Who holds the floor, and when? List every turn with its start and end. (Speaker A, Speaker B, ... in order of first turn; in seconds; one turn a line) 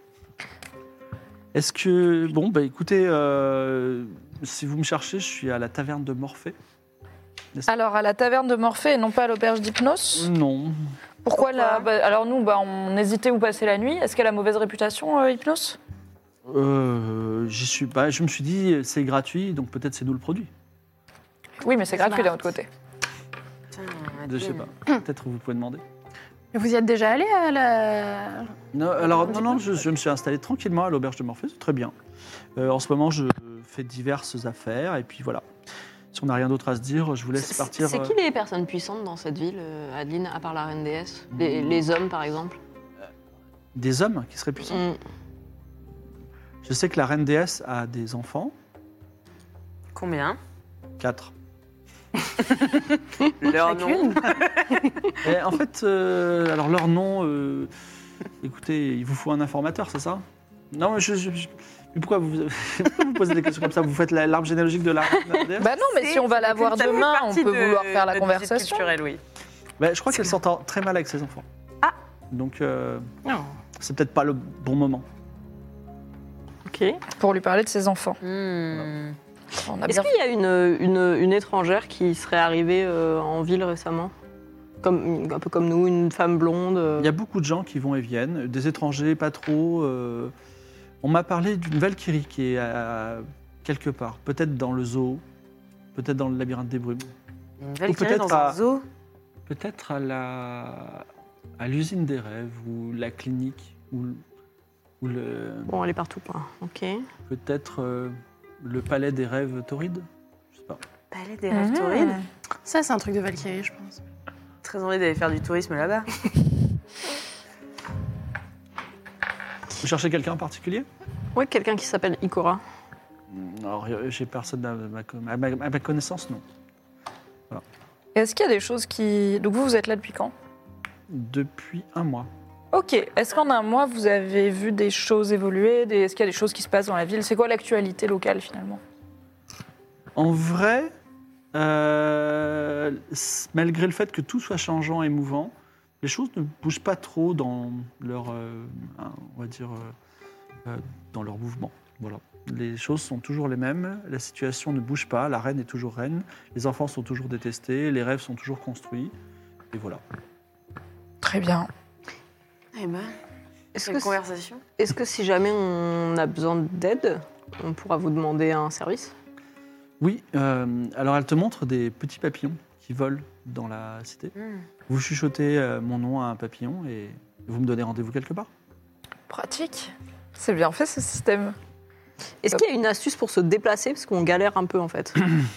Speaker A: 1.5-6.5
Speaker B: 7.7-10.3
Speaker A: 10.1-10.8
Speaker B: 11.2-15.8
Speaker C: 11.4-11.9
Speaker A: 16.5-20.5
Speaker B: 21.6-22.7
Speaker C: 23.7-24.6
Speaker A: 24.2-25.8
Speaker D: 26.5-28.5
Speaker A: 28.7-31.9
Speaker A: 32.5-35.5
Speaker A: 36.1-38.1
Speaker E: 37.4-42.6
Speaker A: 41.3-41.8
Speaker A: 43.7-44.8
Speaker E: 44.7-45.0
Speaker A: 46.6-48.5
Speaker C: 49.9-50.4
Speaker A: 51.0-51.3
Speaker C: 52.5-54.9
Speaker D: 53.5-54.4
Speaker A: 55.2-57.7
Speaker A: 58.4-65.7
Speaker B: 65.6-68.9
Speaker C: 65.7-69.2
Speaker A: 69.8-71.4
Speaker A: 72.3-73.1
Speaker D: 73.2-73.5
Speaker A: 73.8-75.0
Speaker E: 76.7-77.0
Speaker B: 77.2-78.2
Speaker C: 78.2-79.2
Speaker B: 79.6-80.1
Speaker E: 79.8-84.1
Speaker E: 84.8-87.1
Speaker A: 87.0-90.3
Speaker A: 91.0-95.2
Speaker A: 95.9-97.1
Speaker C: 97.6-98.8
Speaker A: 97.9-98.6
Speaker A: 99.5-101.1
Speaker A: 101.6-104.2
Speaker A: 105.0-105.7
Speaker E: 105.7-107.0
Speaker A: 107.3-110.8
Speaker C: 111.1-112.2
Speaker B: 111.5-112.2
Speaker D: 112.7-114.0
Speaker C: 114.6-116.1
Speaker A: 119.8-120.9
Speaker E: 121.3-122.6
Speaker A: 123.3-126.4
Speaker B: 128.1-130.3
Speaker A: 131.1-132.3
Speaker B: 132.7-138.8
Speaker A: 140.2-140.9
Speaker A: 141.5-149.9
Speaker A: 150.6-159.1
Speaker A: 159.7-160.0
Speaker B: 161.2-161.7
Speaker C: 162.7-163.1
Speaker E: 163.7-164.2
Speaker C: 163.8-164.6
Speaker E: 164.8-169.1
Speaker A: 170.0-174.3
Speaker C: 174.3-174.6
Speaker A: 174.9-178.5
Speaker B: 179.3-181.6
Speaker E: 182.4-185.2